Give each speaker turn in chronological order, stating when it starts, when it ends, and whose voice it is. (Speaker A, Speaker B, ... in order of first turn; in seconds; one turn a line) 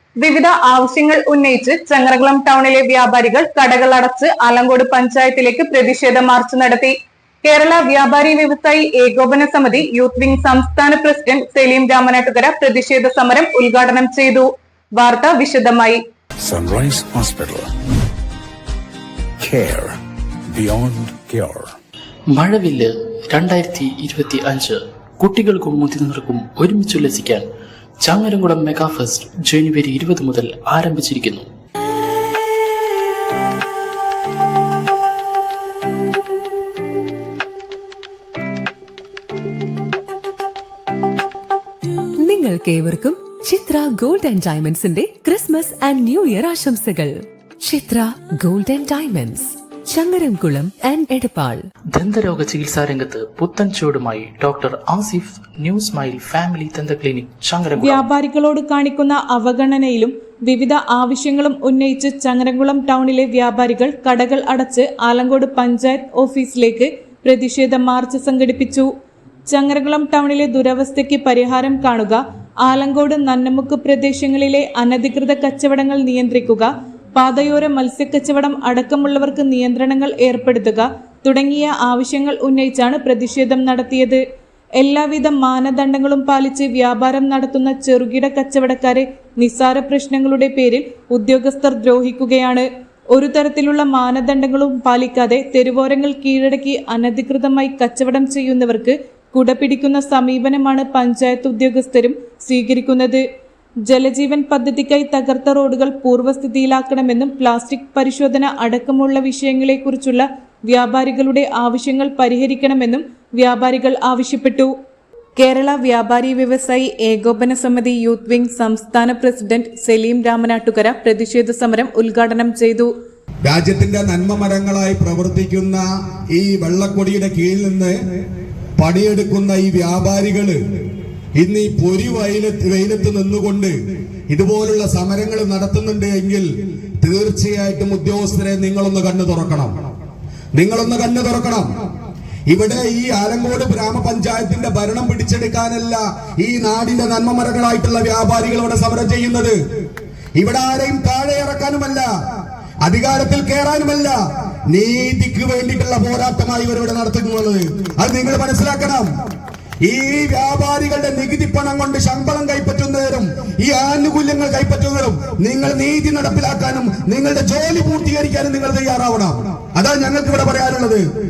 Speaker A: 0.2-14.5
Speaker A: 15.0-16.0
Speaker B: 16.4-17.7
Speaker B: 19.4-20.0
Speaker B: 20.5-21.8
Speaker C: 22.3-27.5
Speaker C: 28.0-31.5
Speaker D: 42.2-51.6
Speaker C: 51.9-58.0
Speaker E: 57.8-68.9
Speaker E: 69.5-84.2
Speaker E: 84.8-103.2
Speaker E: 103.9-114.7
Speaker E: 115.4-122.9
Speaker F: 123.5-125.8
Speaker F: 126.4-128.0
Speaker F: 128.8-130.6
Speaker F: 131.4-133.7
Speaker F: 134.3-136.5
Speaker F: 137.0-139.7
Speaker F: 140.6-141.7
Speaker F: 142.5-149.6
Speaker F: 150.4-152.1
Speaker F: 152.8-154.2
Speaker F: 154.7-159.1
Speaker F: 159.9-171.0